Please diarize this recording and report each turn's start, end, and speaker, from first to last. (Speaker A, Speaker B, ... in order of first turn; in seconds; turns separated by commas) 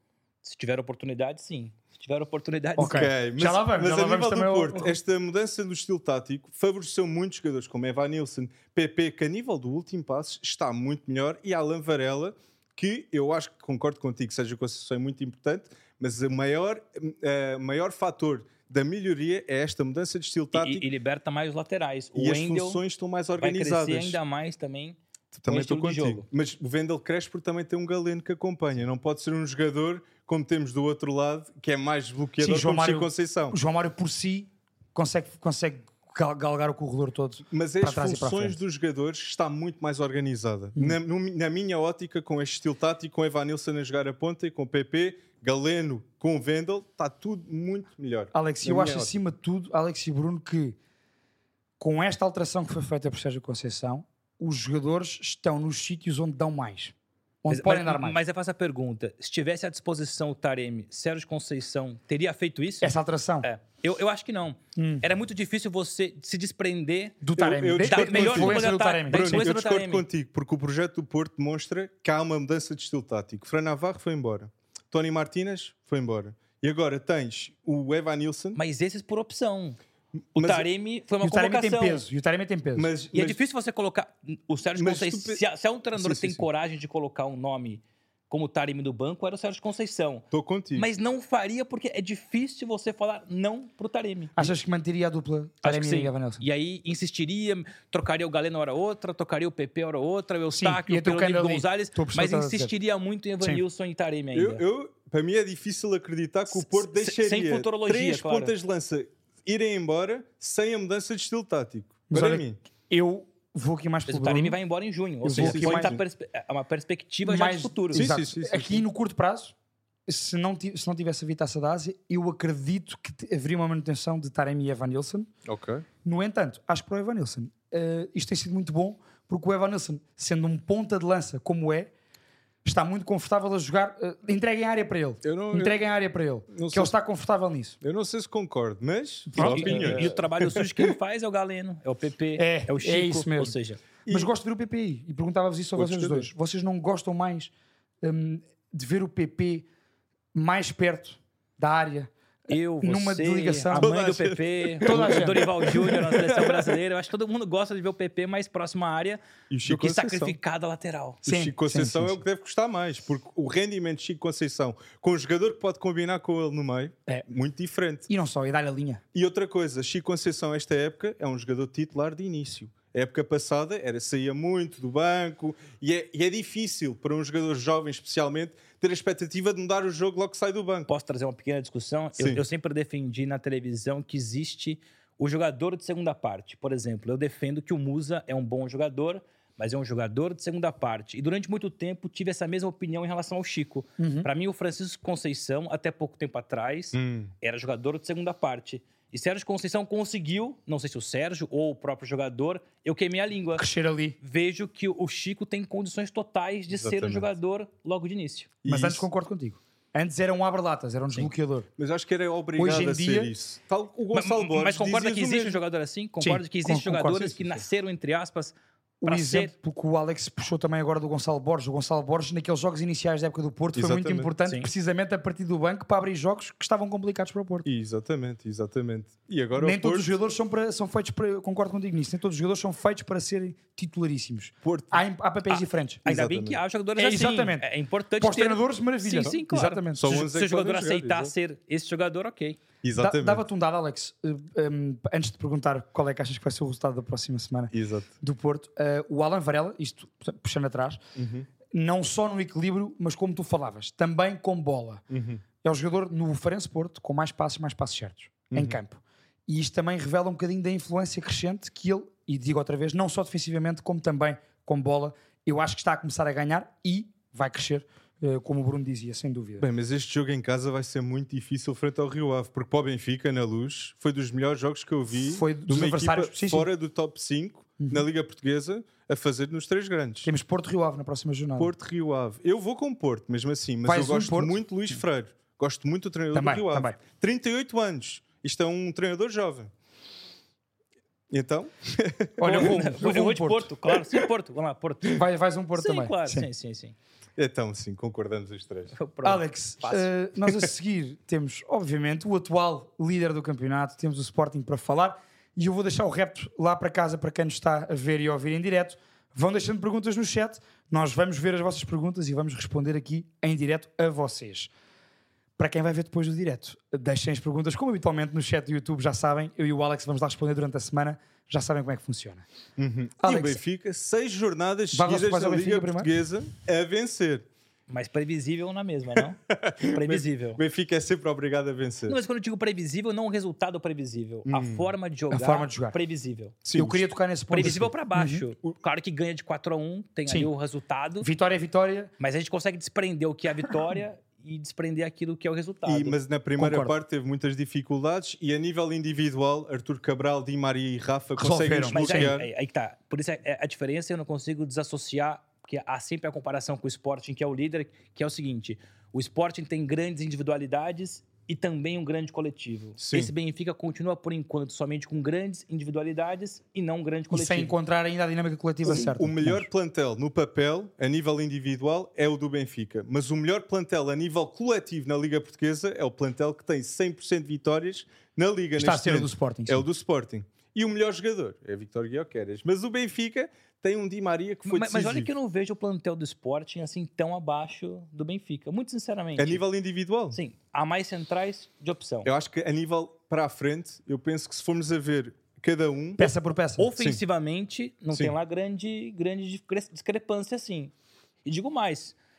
Speaker A: 0.4-3.1, Speaker B: 2.8-5.0, Speaker C: 2.8-20.9, Speaker A: 20.5-22.8, Speaker C: 22.1-24.2, Speaker A: 23.4-26.3, Speaker C: 25.3-33.6, Speaker B: 32.4-38.6, Speaker C: 37.5-49.1, Speaker B: 48.3-50.8, Speaker B: 51.8-58.2, Speaker A: 57.5-62.9, Speaker B: 62.8-63.5, Speaker A: 63.4-67.2, Speaker B: 64.8-65.0, Speaker B: 67.2-69.5, Speaker C: 67.4-78.6, Speaker A: 67.8-70.0, Speaker A: 78.6-79.8, Speaker C: 80.4-80.7, Speaker A: 80.4-82.0, Speaker B: 81.2-82.9, Speaker C: 82.8-83.4, Speaker A: 83.1-94.5, Speaker C: 84.8-85.4, Speaker C: 86.0-86.5, Speaker C: 90.3-90.9, Speaker B: 94.4-96.4, Speaker A: 95.6-104.6, Speaker B: 100.5-102.7, Speaker C: 104.3-112.6, Speaker A: 106.5-108.5, Speaker B: 112.1-114.6, Speaker A: 114.1-118.1, Speaker B: 115.2-116.0, Speaker C: 115.3-116.0, Speaker B: 117.2-119.5, Speaker C: 117.9-118.8, Speaker B: 120.1-125.3, Speaker C: 125.5-125.8, Speaker B: 126.0-131.9, Speaker B: 132.6-137.8, Speaker C: 135.2-135.8, Speaker C: 136.5-136.9, Speaker C: 137.8-140.9, Speaker B: 139.3-140.2, Speaker A: 139.4-143.8, Speaker B: 142.4-143.6, Speaker C: 144.1-144.3, Speaker B: 144.1-147.5, Speaker C: 145.8-146.3, Speaker B: 148.0-149.7, Speaker B: 150.3-152.1, Speaker A: 152.5-161.2, Speaker B: 152.8-153.9, Speaker C: 153.7-156.7, Speaker B: 154.8-155.5, Speaker C: 159.5-160.4, Speaker B: 161.2-162.2, Speaker C: 161.2-168.1, Speaker B: 168.1-169.0, Speaker C: 169.1-180.9, Speaker A: 180.9-203.7, Speaker C: 182.2-182.4, Speaker B: 194.0-194.3, Speaker C: 196.9-197.3, Speaker B: 203.6-204.2, Speaker A: 204.2-208.6, Speaker C: 206.7-207.3, Speaker C: 208.6-209.1, Speaker B: 208.7-211.7, Speaker C: 211.8-215.6, Speaker B: 212.6-213.3, Speaker A: 214.1-219.5, Speaker B: 216.2-217.7, Speaker B: 219.0-227.7, Speaker C: 223.8-224.3, Speaker C: 227.7-230.1, Speaker B: 229.6-236.1, Speaker C: 234.6-235.0, Speaker A: 235.5-242.6, Speaker C: 236.1-236.6, Speaker B: 237.0-237.7, Speaker B: 238.2-240.2, Speaker C: 239.2-241.3, Speaker C: 242.8-243.4, Speaker B: 243.0-251.0, Speaker C: 247.7-248.1, Speaker C: 251.2-251.5, Speaker B: 251.7-255.0, Speaker C: 255.1-255.4, Speaker B: 255.6-269.7, Speaker C: 258.5-258.8, Speaker C: 269.6-280.3, Speaker B: 275.1-276.7, Speaker B: 277.8-278.1, Speaker B: 280.2-281.7, Speaker C: 281.6-289.7, Speaker B: 283.8-284.9, Speaker B: 286.3-287.0, Speaker C: 291.3-292.8, Speaker B: 292.4-293.7, Speaker A: 292.4-296.9, Speaker B: 295.1-296.5, Speaker C: 297.4-298.9, Speaker A: 299.0-300.1, Speaker B: 299.2-314.7, Speaker B: 315.6-322.4, Speaker C: 322.8-327.5, Speaker B: 323.2-323.6, Speaker B: 324.9-326.1, Speaker A: 327.9-330.6, Speaker C: 329.2-332.2, Speaker A: 332.1-336.6, Speaker C: 334.5-334.9, Speaker B: 335.3-336.0, Speaker C: 336.6-337.1, Speaker B: 336.7-338.4, Speaker A: 337.5-341.3, Speaker B: 341.2-342.1, Speaker A: 342.2-346.2, Speaker C: 345.9-352.5, Speaker B: 346.6-346.9, Speaker B: 351.4-352.4, Speaker A: 351.9-367.7, Speaker C: 363.0-363.3, Speaker B: 367.3-369.7, Speaker C: 368.9-385.3, Speaker B: 378.8-379.9, Speaker A: 384.7-389.6, Speaker C: 389.4-390.4, Speaker A: 390.3-392.3, Speaker C: 392.2-396.3, Speaker B: 396.2-396.9, Speaker A: 396.8-400.9, Speaker C: 397.0-397.2, Speaker A: 401.4-402.1